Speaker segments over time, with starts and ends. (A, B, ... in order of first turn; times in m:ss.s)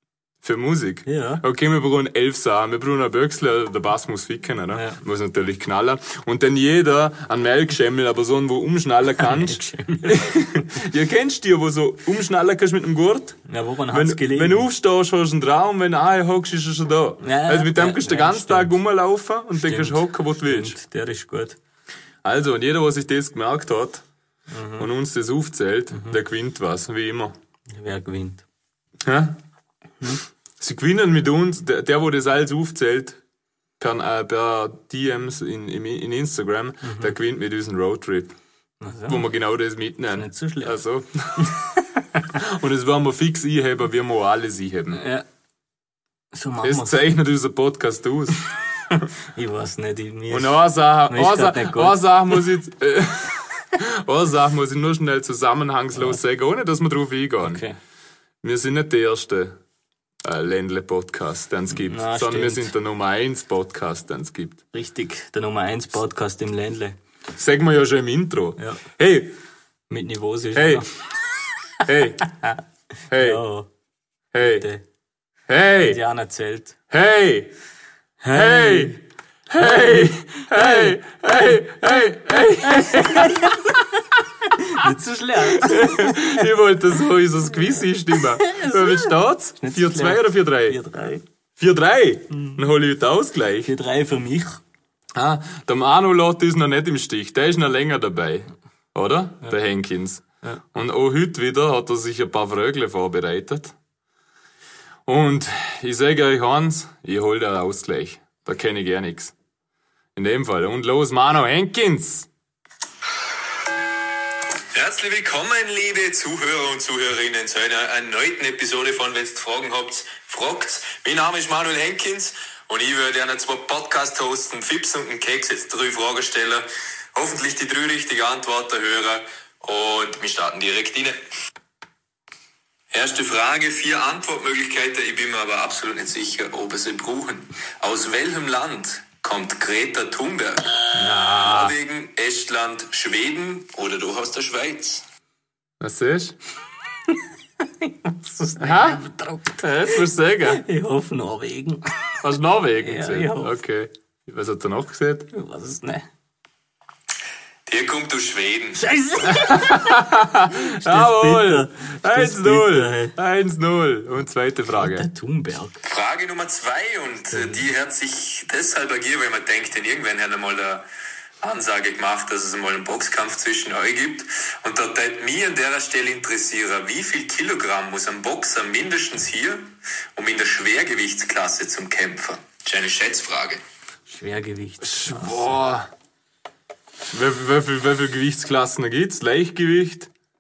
0:00.4-0:13.4 A
0:01.0-0:01.4 B
0:04.7-0:05.0 B
0:09.2-0:10.2 B
0:13.4-0:14.6 B
0:13.9-0:20.8 A
0:17.2-0:18.8 B
0:19.6-0:21.6 B
0:22.2-0:24.0 A
0:24.5-0:24.9 B
0:24.8-0:27.3 A
0:27.7-0:28.4 B
0:29.0-0:29.4 A
0:30.6-0:33.2 A
0:33.8-0:38.4 A
0:36.8-0:37.1 B
0:38.8-0:39.3 B
0:39.1-0:41.5 A
0:40.1-0:40.8 B
0:42.3-0:45.0 A
0:44.9-0:45.2 B
0:46.3-0:47.0 B
0:46.6-0:48.4 A
0:48.9-0:52.4 B
0:50.3-0:57.6 A
0:57.4-0:57.8 B
0:58.4-0:59.6 A
1:00.2-1:04.6 A
1:01.7-1:02.7 B
1:04.7-1:07.0 B
1:07.4-1:09.3 A
1:08.6-1:08.8 B
1:09.9-1:10.9 B
1:10.5-1:10.8 A
1:11.8-1:12.3 A
1:13.1-1:13.4 A
1:13.1-1:13.7 B
1:14.3-1:14.7 A
1:14.4-1:14.8 B
1:15.5-1:16.0 A
1:15.8-1:16.8 B
1:16.9-1:17.5 A
1:18.2-1:19.0 B
1:18.3-1:18.9 A
1:19.5-1:23.7 A
1:19.6-1:21.0 B
1:22.8-1:23.8 B
1:24.5-1:26.4 B
1:25.5-1:30.8 A
1:28.2-1:31.2 B
1:31.6-1:33.7 A
1:32.3-1:32.6 B
1:33.6-1:34.6 B
1:35.1-1:43.7 A
1:45.0-1:49.3 A
1:50.2-1:52.3 A
1:54.7-2:11.2 C
2:12.9-2:20.8 C
2:21.0-2:21.7 A
2:21.4-2:25.0 C
2:25.8-2:26.4 A
2:27.8-2:32.2 B
2:28.6-2:29.0 A
2:29.6-2:30.6 A
2:32.2-2:35.3 A
2:32.8-2:33.6 B
2:35.3-2:36.1 B
2:37.6-2:38.8 C
2:38.8-2:43.1 B
2:39.2-2:45.1 A
2:44.7-2:45.8 B
2:45.8-2:50.9 C
2:47.3-2:47.7 B
2:51.4-3:03.6 C
3:04.1-3:05.6 B
3:04.8-3:05.9 A
3:07.1-3:10.1 A